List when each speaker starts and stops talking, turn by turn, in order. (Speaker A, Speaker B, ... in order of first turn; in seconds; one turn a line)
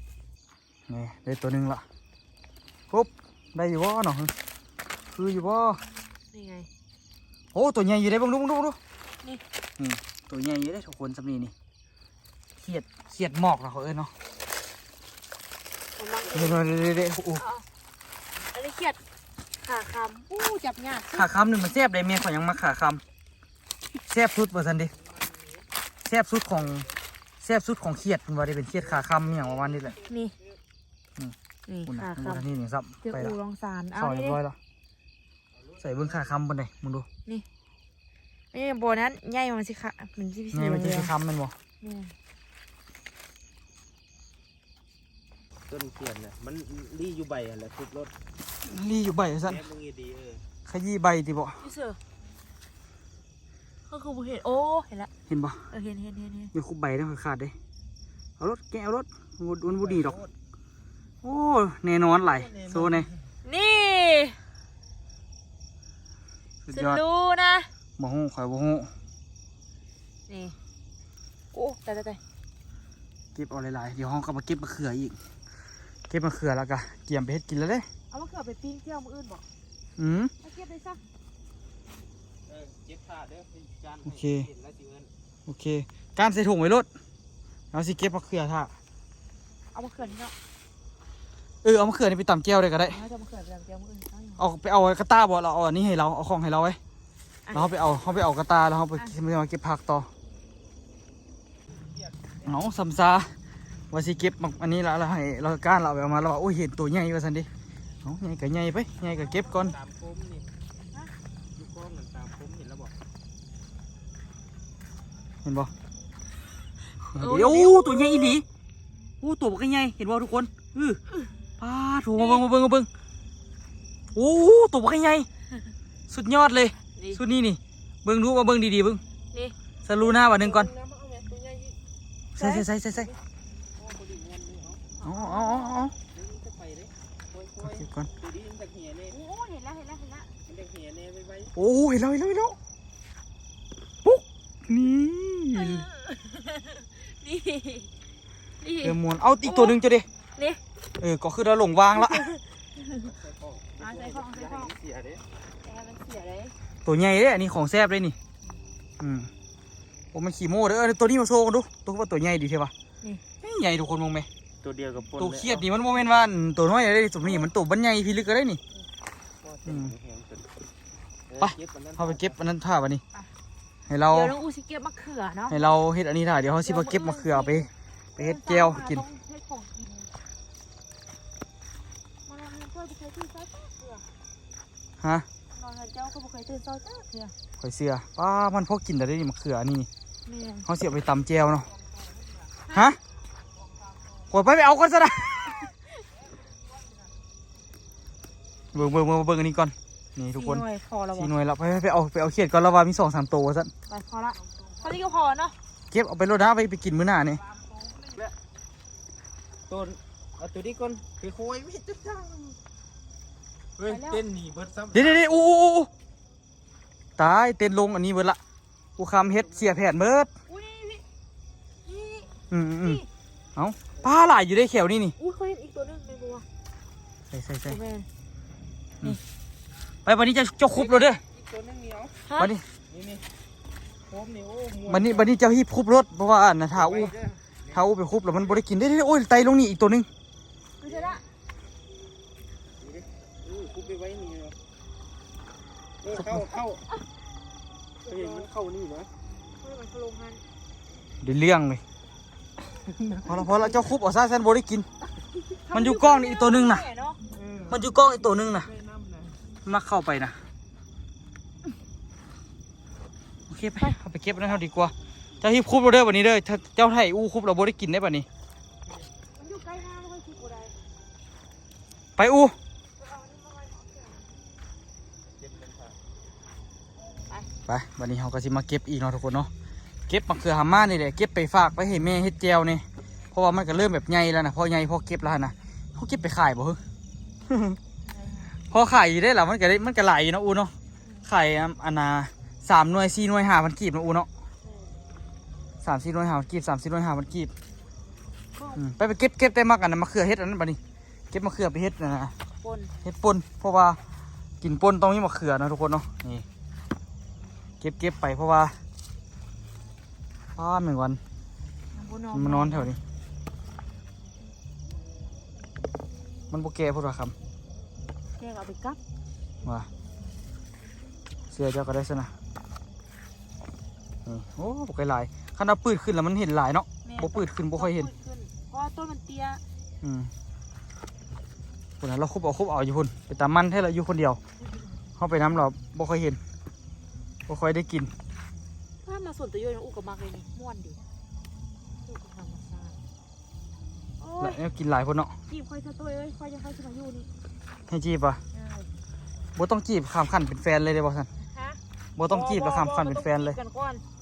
Speaker A: 0.9-1.8
Speaker A: 2.9-4.3
Speaker A: 5.1-5.8
Speaker B: 6.3-6.7
Speaker A: 7.5-8.8
Speaker A: 9.8-11.5
Speaker A: 12.6-14.1
Speaker B: 15.9-16.6
Speaker A: 16.3-17.4
Speaker B: 17.4-17.6
Speaker B: 18.5-19.0
Speaker B: 19.6-21.3
Speaker A: 21.1-23.0
Speaker A: 24.1-24.9
Speaker A: 26.0-26.9
Speaker A: 27.4-30.0
Speaker B: 30.1-30.3
Speaker B: 31.7-32.4
Speaker A: 31.9-33.4
Speaker B: 33.0-34.4
Speaker A: 34.0-34.5
Speaker A: 35.8-37.0
Speaker B: 38.5-41.1
Speaker A: 40.5-41.5
Speaker B: 41.8-42.1
Speaker C: 45.7-48.1
Speaker A: 48.6-49.6
Speaker C: 49.5-50.4
Speaker A: 50.6-51.6
Speaker B: 51.6-52.0
Speaker B: 53.9-55.1
Speaker A: 55.3-55.6
Speaker B: 55.7-56.5
Speaker A: 56.5-57.5
Speaker A: 58.4-60.2
Speaker A: 61.2-63.1
Speaker B: 63.4-64.4
Speaker A: 66.7-67.0
Speaker B: 66.7-67.7
Speaker A: 68.0-68.9
Speaker B: 70.3-70.5
Speaker B: 71.5-72.2
Speaker A: 73.3-75.2
Speaker A: 76.1-77.8
Speaker B: 78.1-79.4
Speaker A: 80.0-80.3
Speaker B: 80.4-81.0
Speaker C: 82.5-85.1
Speaker A: 84.0-84.5
Speaker A: 85.5-86.9
Speaker A: 87.7-88.7
Speaker B: 89.7-90.3
Speaker A: 91.6-93.0
Speaker B: 92.8-94.4
Speaker A: 94.4-96.8
Speaker B: 97.5-97.8
Speaker A: 97.5-100.1
Speaker A: 102.4-103.3
Speaker A: 103.9-107.5
Speaker A: 108.0-109.8
Speaker C: 109.6-110.5
Speaker C: 111.6-112.9
Speaker A: 115.4-115.7
Speaker A: 117.1-118.4
Speaker B: 117.1-118.3
Speaker A: 119.2-121.0
Speaker A: 121.6-122.9
Speaker B: 122.2-122.4
Speaker A: 124.1-125.3
Speaker A: 126.1-129.0
Speaker B: 127.0-127.2
Speaker A: 129.8-130.7
Speaker C: 130.4-131.7
Speaker A: 132.3-133.1
Speaker B: 132.4-132.6
Speaker C: 133.8-134.8
Speaker B: 135.0-135.8
Speaker A: 135.0-135.9
Speaker C: 136.1-139.2
Speaker A: 137.6-138.1
Speaker B: 139.1-140.3
Speaker C: 140.4-141.5
Speaker A: 141.5-142.6
Speaker A: 144.0-145.8
Speaker B: 145.5-147.9
Speaker B: 148.6-149.8
Speaker A: 148.8-150.1
Speaker A: 151.0-152.3
Speaker B: 151.9-152.9
Speaker C: 153.1-155.2
Speaker B: 153.8-154.7
Speaker B: 155.6-156.5
Speaker A: 156.8-158.2
Speaker A: 159.0-159.3
Speaker A: 160.1-162.7
Speaker A: 163.4-164.3
Speaker C: 164.6-165.6
Speaker A: 165.2-168.6
Speaker C: 169.4-170.5
Speaker A: 169.6-169.9
Speaker C: 171.3-172.3
Speaker A: 171.4-173.0
Speaker A: 173.9-174.4
Speaker B: 174.1-175.7
Speaker A: 175.5-179.0
Speaker B: 176.6-180.1
Speaker B: 182.2-184.1
Speaker B: 185.5-187.3
Speaker A: 187.6-189.9
Speaker B: 190.2-190.7
Speaker A: 190.7-191.7
Speaker A: 192.7-193.0
Speaker A: 194.3-195.6
Speaker A: 198.7-200.6
Speaker B: 200.3-201.3
Speaker A: 201.1-203.7
Speaker B: 203.9-205.5
Speaker A: 205.9-207.4
Speaker C: 209.7-212.6
Speaker C: 213.8-215.2
Speaker B: 213.8-214.2
Speaker A: 214.9-215.9
Speaker A: 217.2-218.4
Speaker A: 219.0-220.3
Speaker B: 220.5-221.0
Speaker B: 221.8-222.3
Speaker A: 222.5-223.0
Speaker A: 223.6-225.2
Speaker B: 225.2-226.4
Speaker A: 227.3-227.8
Speaker B: 227.7-228.1
Speaker A: 230.1-231.2
Speaker C: 231.3-232.1
Speaker B: 232.2-232.5
Speaker A: 232.4-232.6
Speaker C: 232.9-233.2
Speaker C: 234.1-234.9
Speaker A: 234.8-237.2
Speaker C: 237.0-237.3
Speaker A: 237.7-240.1
Speaker B: 240.8-241.2
Speaker C: 242.8-244.5
Speaker C: 246.0-246.8
Speaker B: 248.0-248.5
Speaker C: 248.1-249.1
Speaker B: 249.6-250.4
Speaker A: 251.2-251.8
Speaker C: 252.9-253.3
Speaker A: 253.2-254.9
Speaker B: 255.7-257.2
Speaker A: 255.7-256.9
Speaker C: 257.3-257.8
Speaker A: 257.7-258.7
Speaker C: 258.7-259.4
Speaker A: 259.6-260.4
Speaker A: 263.5-268.2
Speaker B: 269.4-270.8
Speaker A: 272.2-272.6
Speaker B: 273.0-274.2
Speaker A: 277.7-279.5
Speaker A: 280.1-286.8
Speaker A: 287.5-287.8
Speaker B: 288.1-288.5
Speaker A: 288.7-290.7
Speaker A: 291.2-294.3
Speaker B: 294.6-294.9
Speaker A: 295.8-297.5
Speaker B: 298.6-298.8
Speaker A: 298.8-300.8
Speaker A: 301.3-302.3
Speaker B: 302.6-302.9
Speaker A: 303.0-304.0
Speaker A: 304.6-306.4
Speaker A: 307.8-308.8
Speaker A: 310.6-311.2
Speaker B: 311.9-312.9
Speaker A: 312.3-313.0
Speaker A: 316.5-317.3
Speaker B: 318.4-319.0
Speaker A: 321.5-322.3
Speaker A: 324.2-328.1
Speaker B: 327.0-329.6
Speaker A: 330.0-330.3
Speaker A: 332.0-334.4
Speaker A: 335.2-336.4
Speaker A: 337.5-338.1
Speaker B: 339.0-341.0
Speaker B: 342.0-342.9
Speaker B: 344.2-344.6
Speaker A: 344.4-345.3
Speaker B: 345.5-347.3
Speaker A: 347.9-348.4
Speaker B: 348.5-348.9
Speaker A: 349.6-351.3
Speaker B: 351.5-354.0
Speaker A: 352.2-353.6